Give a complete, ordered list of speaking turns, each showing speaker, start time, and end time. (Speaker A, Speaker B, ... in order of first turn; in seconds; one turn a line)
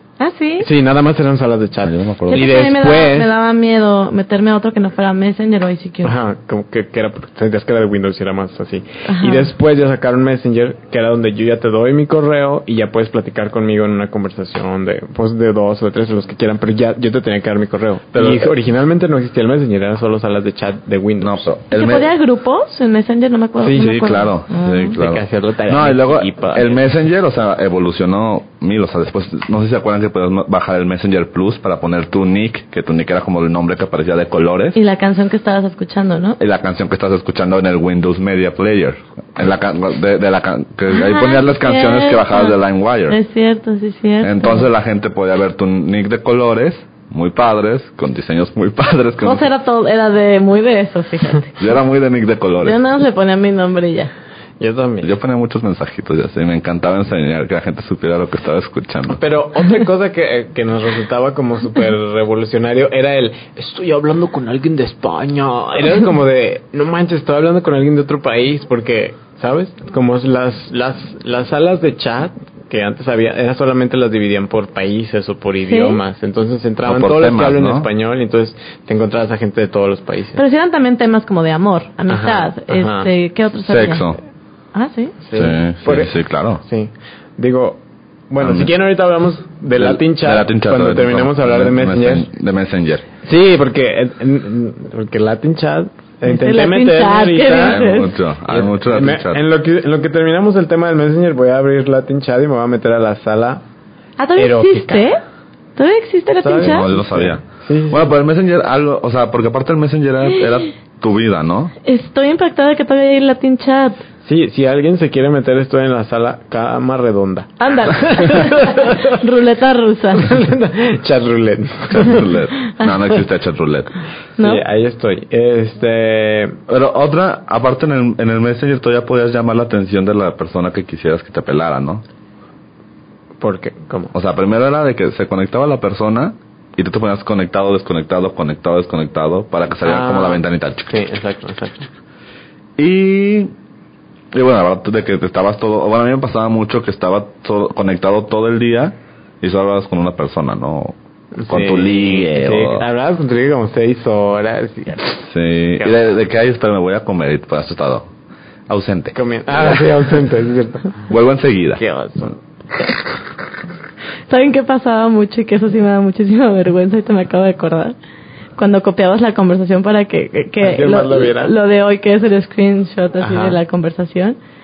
Speaker A: 0.2-0.7
Speaker B: 0.6-3.3
Speaker C: 1.8-2.6
Speaker A: 2.3-6.1
Speaker B: 6.0-21.5
Speaker A: 9.1-9.5
Speaker C: 18.1-18.6
Speaker C: 21.2-22.1
Speaker A: 21.7-24.9
Speaker B: 23.6-24.0
Speaker C: 23.8-34.8
Speaker B: 24.9-26.8
Speaker A: 34.8-36.4
Speaker C: 36.4-43.2
Speaker A: 40.9-44.7
Speaker C: 44.2-49.5
Speaker A: 49.2-51.6
Speaker C: 51.6-52.8
Speaker A: 52.6-54.1
Speaker B: 54.6-55.1
Speaker C: 55.0-59.2
Speaker B: 59.1-80.4
Speaker A: 75.6-76.0
Speaker C: 76.9-77.9
Speaker A: 80.4-84.1
Speaker B: 82.1-83.1
Speaker C: 83.7-84.2
Speaker A: 84.7-85.2
Speaker B: 85.2-92.3
Speaker C: 85.3-86.6
Speaker C: 88.4-88.7
Speaker C: 89.7-93.1
Speaker B: 93.2-97.9
Speaker A: 96.2-98.1
Speaker C: 97.6-99.4
Speaker B: 98.5-103.6
Speaker A: 104.2-105.2
Speaker B: 104.4-105.1
Speaker A: 105.8-106.9
Speaker B: 106.4-108.1
Speaker C: 106.6-111.7
Speaker A: 111.8-114.0
Speaker B: 114.2-119.2
Speaker A: 117.6-120.4
Speaker B: 120.2-122.3
Speaker C: 121.9-123.9
Speaker A: 122.7-123.1
Speaker A: 124.4-124.6
Speaker B: 124.4-126.6
Speaker C: 126.7-132.0
Speaker B: 133.4-134.1
Speaker C: 134.1-141.0
Speaker B: 139.8-141.9
Speaker C: 142.8-143.5
Speaker C: 144.3-150.9
Speaker B: 151.4-155.3
Speaker C: 151.5-152.8
Speaker C: 155.3-158.1
Speaker C: 158.7-159.9
Speaker B: 159.1-161.1
Speaker C: 161.1-161.8
Speaker B: 161.8-162.4
Speaker A: 164.3-167.9
Speaker A: 168.6-174.4
Speaker B: 170.6-171.5
Speaker B: 173.2-173.6